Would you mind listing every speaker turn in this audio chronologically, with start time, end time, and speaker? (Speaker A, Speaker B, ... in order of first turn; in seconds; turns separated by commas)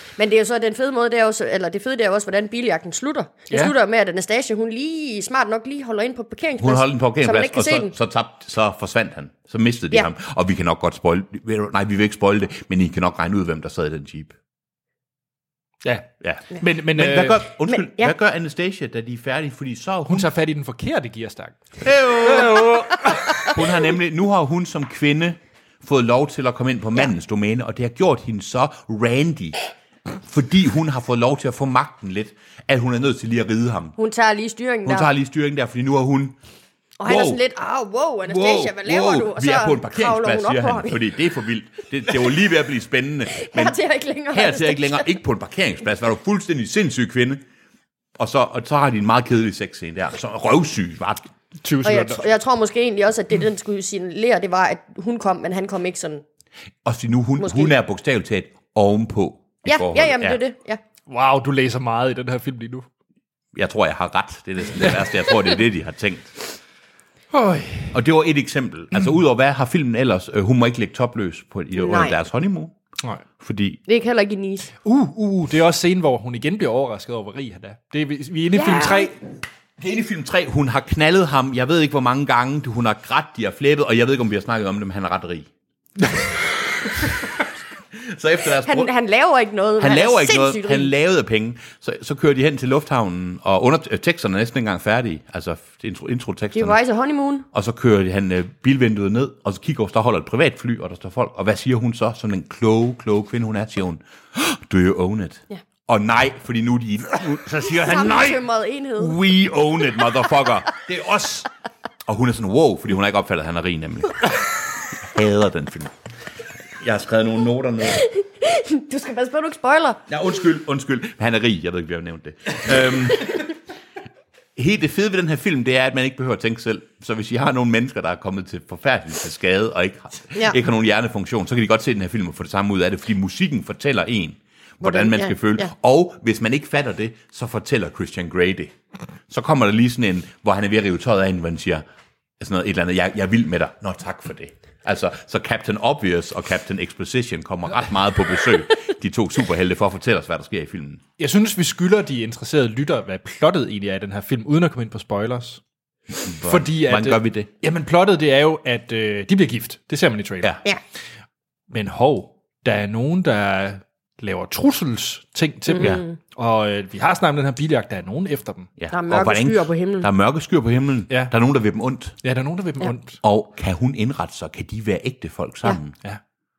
Speaker A: 0.2-7.9, Speaker B: 6.6-14.4, Speaker C: 15.8-17.4, Speaker B: 16.2-20.3, Speaker A: 17.7-18.1, Speaker C: 20.1-21.8, Speaker B: 21.8-29.6, Speaker C: 22.3-23.5, Speaker B: 30.2-34.0, Speaker A: 34.0-35.1, Speaker B: 34.9-36.4, Speaker A: 37.0-41.0, Speaker B: 37.0-37.4, Speaker B: 38.2-43.8, Speaker A: 43.3-45.1, Speaker B: 44.3-47.4, Speaker B: 48.2-51.3, Speaker C: 51.6-52.3, Speaker A: 51.8-56.2, Speaker B: 56.9-60.4, Speaker A: 57.4-57.7, Speaker A: 59.7-60.8, Speaker C: 61.1-62.9, Speaker B: 63.5-66.4, Speaker C: 67.3-68.0, Speaker B: 67.9-72.8, Speaker A: 71.8-72.2, Speaker B: 73.4-73.8, Speaker A: 73.9-74.7, Speaker C: 74.8-79.2, Speaker A: 78.5-79.1, Speaker B: 79.8-85.5, Speaker B: 87.9-88.9, Speaker A: 88.7-90.9, Speaker B: 89.8-96.8, Speaker A: 96.5-97.5, Speaker B: 97.5-108.4, Speaker A: 107.7-109.2, Speaker B: 109.0-111.5, Speaker B: 112.0-114.4, Speaker B: 115.0-115.9, Speaker B: 116.8-118.0, Speaker A: 118.0-120.0, Speaker B: 120.1-123.5, Speaker B: 124.6-138.8, Speaker A: 134.8-135.7, Speaker B: 139.3-141.8, Speaker B: 142.4-151.0, Speaker C: 151.2-155.6, Speaker B: 156.2-157.5, Speaker C: 156.4-160.6, Speaker C: 161.7-168.7, Speaker A: 165.7-166.2, Speaker B: 165.8-166.0, Speaker B: 168.8-172.2, Speaker A: 168.9-170.1, Speaker C: 172.2-173.2, Speaker B: 173.2-176.0